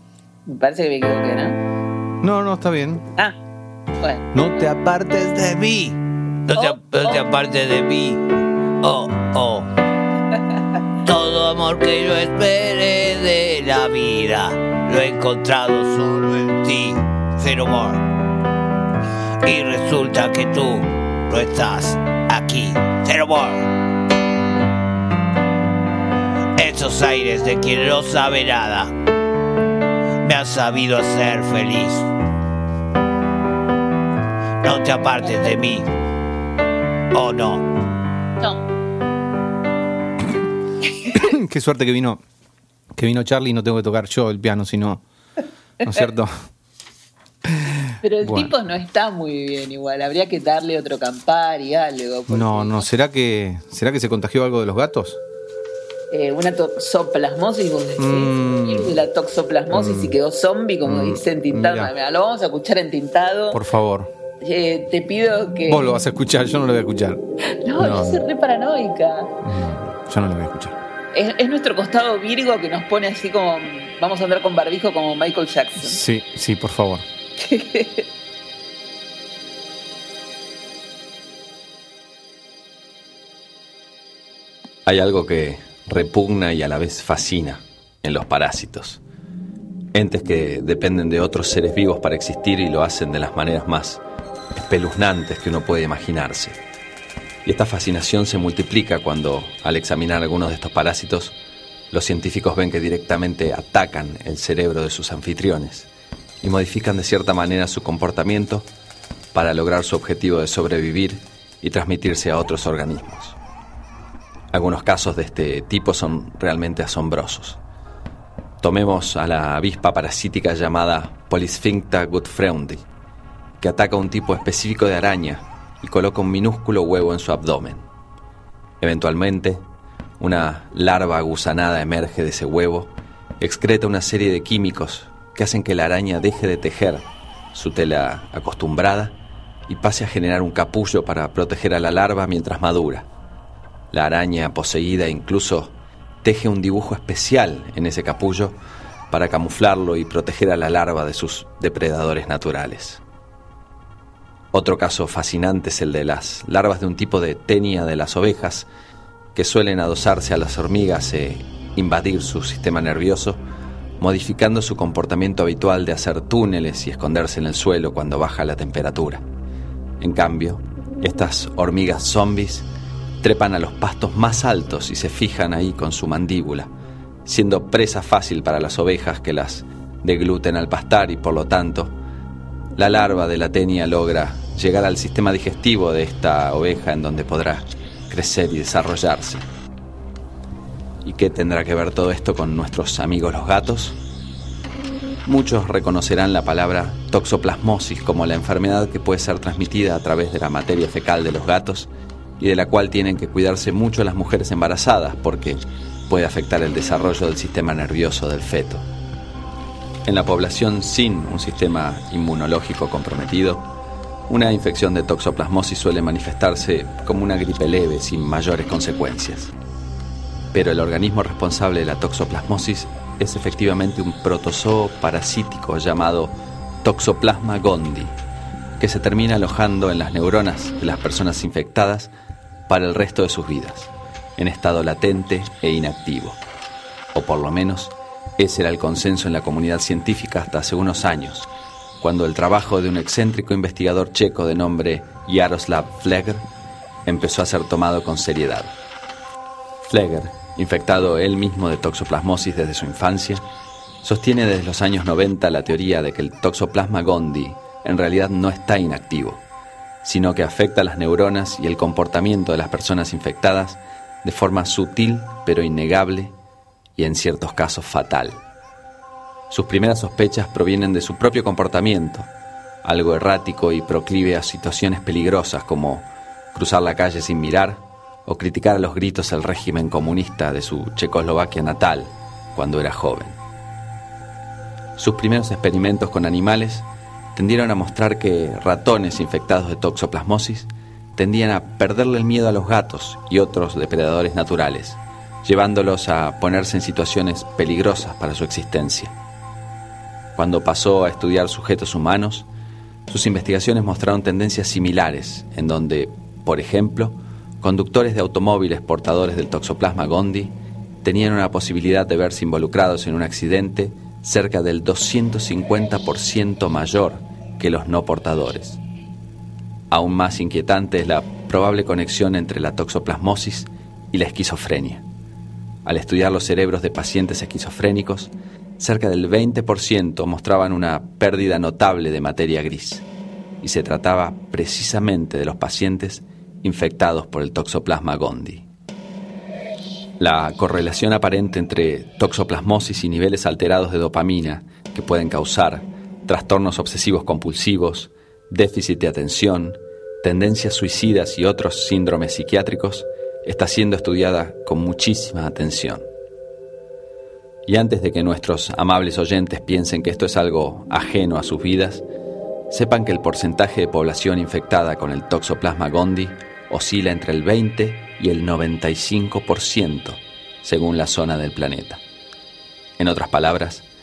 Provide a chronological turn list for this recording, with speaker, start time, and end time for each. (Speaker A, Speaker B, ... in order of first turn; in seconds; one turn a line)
Speaker A: 0.5-1.6
Speaker B: 2.2-3.0
Speaker C: 4.5-8.2
Speaker A: 6.5-7.2
Speaker C: 8.8-9.7
Speaker C: 11.0-18.0
Speaker C: 19.4-23.7
Speaker C: 26.5-28.9
Speaker C: 30.2-32.1
Speaker C: 34.6-35.9
Speaker A: 35.2-35.5
Speaker C: 37.1-37.7
Speaker B: 41.1-42.2
Speaker B: 42.9-45.0
Speaker B: 45.8-46.3
Speaker A: 48.0-52.9
Speaker B: 48.2-48.5
Speaker B: 52.3-55.2
Speaker A: 56.1-63.6
Speaker B: 58.0-58.9
Speaker B: 59.7-60.1
Speaker B: 60.8-61.9
Speaker B: 63.5-64.1
Speaker A: 64.4-65.8
Speaker B: 65.7-67.2
Speaker A: 67.6-69.3
Speaker B: 67.8-68.2
Speaker B: 69.4-70.8
Speaker A: 71.1-76.0
Speaker B: 75.8-77.0
Speaker A: 77.4-78.0
Speaker D: 84.8-89.0
Speaker D: 89.9-94.0
Speaker D: 94.5-96.6
Speaker D: 97.4-101.3
Speaker D: 101.9-105.9
Speaker D: 106.4-108.7
Speaker D: 109.3-113.4
Speaker D: 114.5-117.6
Speaker D: 118.6-122.8
Speaker D: 123.6-127.8
Speaker D: 128.8-129.6
Speaker D: 130.2-139.2
Speaker D: 139.7-143.1
Speaker D: 143.9-148.6
Speaker D: 149.1-153.0
Speaker D: 154.5-158.7
Speaker D: 159.3-163.4
Speaker D: 164.0-169.2
Speaker D: 170.0-172.7
Speaker D: 173.2-176.7
Speaker D: 177.2-181.9
Speaker D: 182.8-189.4
Speaker D: 191.0-194.0
Speaker D: 195.2-208.8
Speaker D: 210.0-213.7
Speaker D: 214.3-219.5
Speaker D: 220.5-228.2
Speaker D: 228.8-232.1
Speaker D: 232.7-236.4
Speaker D: 237.1-241.5
Speaker D: 242.0-246.4
Speaker D: 247.1-248.7
Speaker D: 249.9-253.4
Speaker D: 254.0-259.4
Speaker D: 260.0-266.4
Speaker D: 267.0-268.4
Speaker D: 269.5-272.3
Speaker D: 272.8-283.4
Speaker D: 285.0-299.1
Speaker D: 300.4-302.5
Speaker D: 303.1-318.8
Speaker D: 319.9-325.0
Speaker D: 325.8-333.0
Speaker D: 333.6-338.7
Speaker D: 340.2-356.1
Speaker D: 357.6-362.0
Speaker D: 362.7-372.0
Speaker D: 373.0-373.8